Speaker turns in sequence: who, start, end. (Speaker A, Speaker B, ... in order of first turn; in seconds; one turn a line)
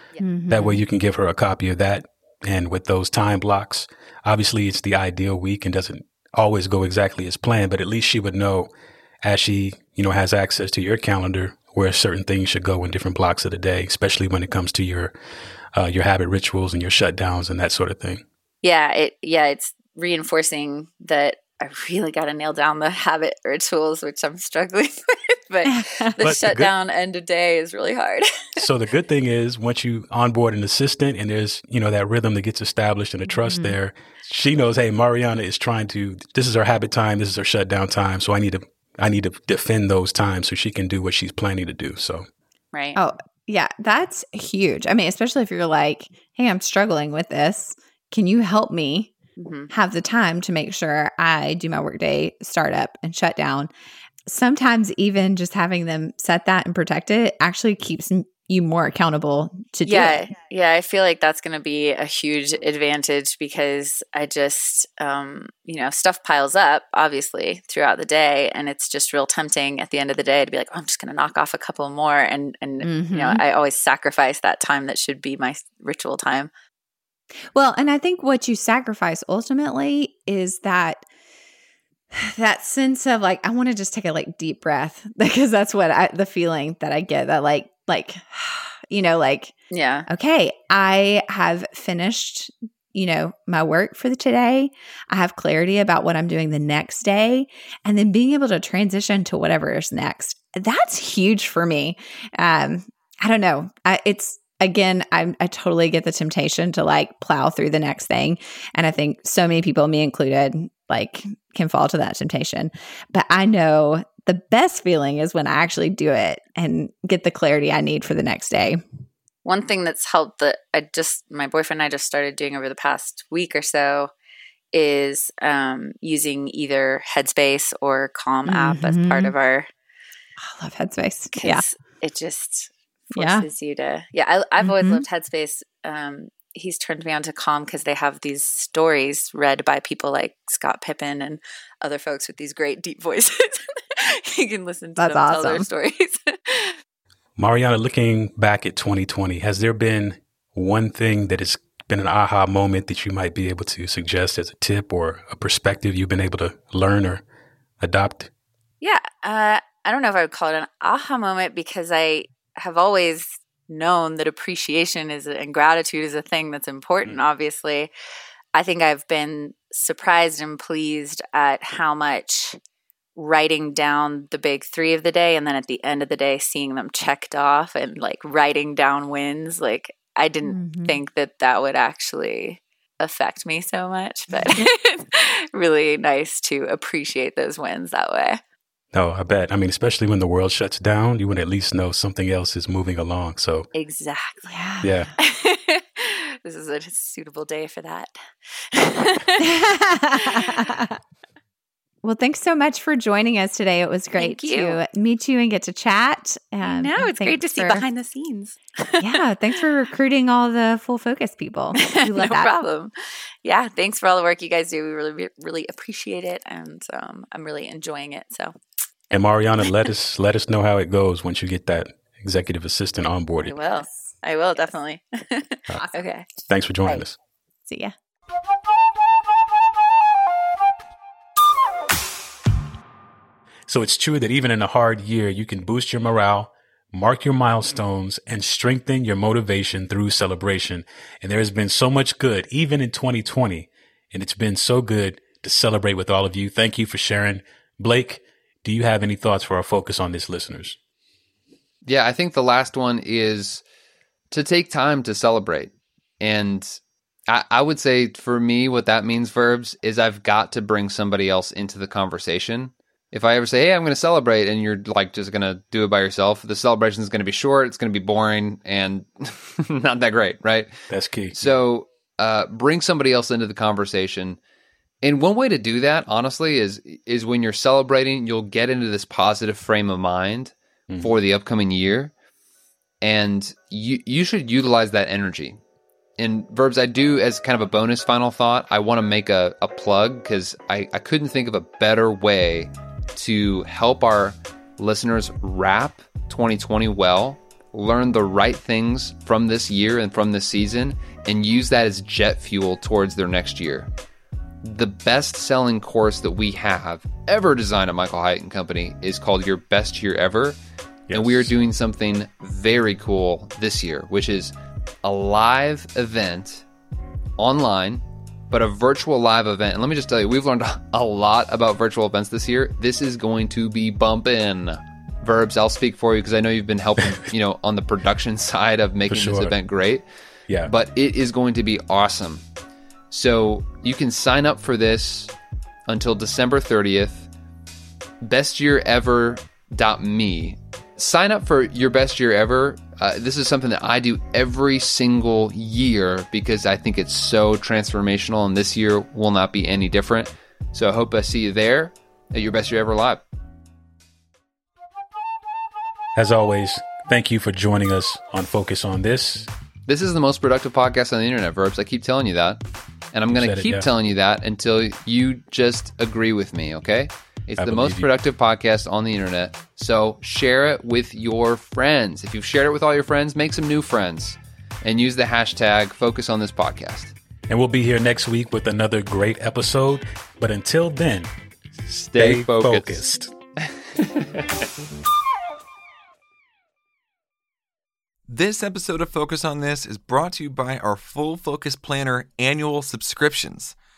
Speaker A: 0.2-0.8
Speaker B: 0.5-8.7
Speaker B: 9.2-15.1
Speaker B: 15.7-18.2
Speaker C: 18.6-28.6
Speaker A: 25.6-26.2
Speaker B: 26.2-26.7
Speaker B: 28.6-42.2
Speaker A: 33.4-33.8
Speaker C: 42.7-43.0
Speaker A: 43.0-49.1
Speaker C: 49.4-49.7
Speaker A: 49.7-53.7
Speaker A: 54.2-60.2
Speaker C: 59.9-76.5
Speaker A: 72.8-73.4
Speaker A: 77.5-81.0
Speaker A: 82.1-89.5
Speaker C: 89.7-90.0
Speaker A: 90.1-118.8
Speaker C: 119.4-124.1
Speaker C: 124.7-129.7
Speaker A: 128.4-129.3
Speaker A: 130.4-131.6
Speaker C: 131.3-146.8
Speaker A: 133.2-133.4
Speaker A: 134.6-135.0
Speaker A: 145.0-145.7
Speaker B: 147.4-157.2
Speaker B: 157.8-158.3
Speaker C: 158.8-167.9
Speaker C: 168.5-172.6
Speaker C: 173.2-188.4
Speaker A: 180.5-181.0
Speaker B: 188.9-193.7
Speaker C: 193.7-194.6
Speaker A: 194.4-195.1
Speaker B: 194.8-195.1
Speaker C: 195.2-198.1
Speaker C: 198.7-199.5
Speaker A: 199.4-201.0
Speaker C: 200.2-200.6
Speaker A: 202.0-207.8
Speaker C: 204.2-204.8
Speaker C: 206.6-209.2
Speaker A: 209.0-212.5
Speaker C: 211.8-212.9
Speaker C: 213.4-218.5
Speaker B: 219.1-223.6
Speaker C: 223.4-226.3
Speaker B: 226.5-227.2
Speaker A: 227.7-227.9
Speaker B: 233.7-250.8
Speaker D: 251.8-253.6
Speaker D: 254.3-270.7
Speaker B: 270.9-271.5
Speaker D: 271.3-274.4
Speaker D: 275.0-282.1
Speaker D: 283.0-285.6
Speaker D: 286.2-303.9
Speaker D: 304.6-310.6
Speaker B: 311.1-311.5
Speaker D: 311.1-316.6
Speaker D: 317.4-330.0
Speaker B: 329.1-329.6
Speaker D: 330.6-332.4
Speaker D: 333.1-335.3
Speaker D: 335.9-337.3
Speaker D: 338.2-353.2
Speaker B: 356.1-359.5
Speaker D: 359.9-362.6
Speaker D: 363.1-377.1
Speaker B: 363.3-363.9
Speaker B: 367.6-368.1
Speaker B: 377.5-381.3
Speaker D: 381.9-383.1
Speaker B: 382.2-383.3
Speaker D: 383.6-384.6
Speaker E: 388.3-393.7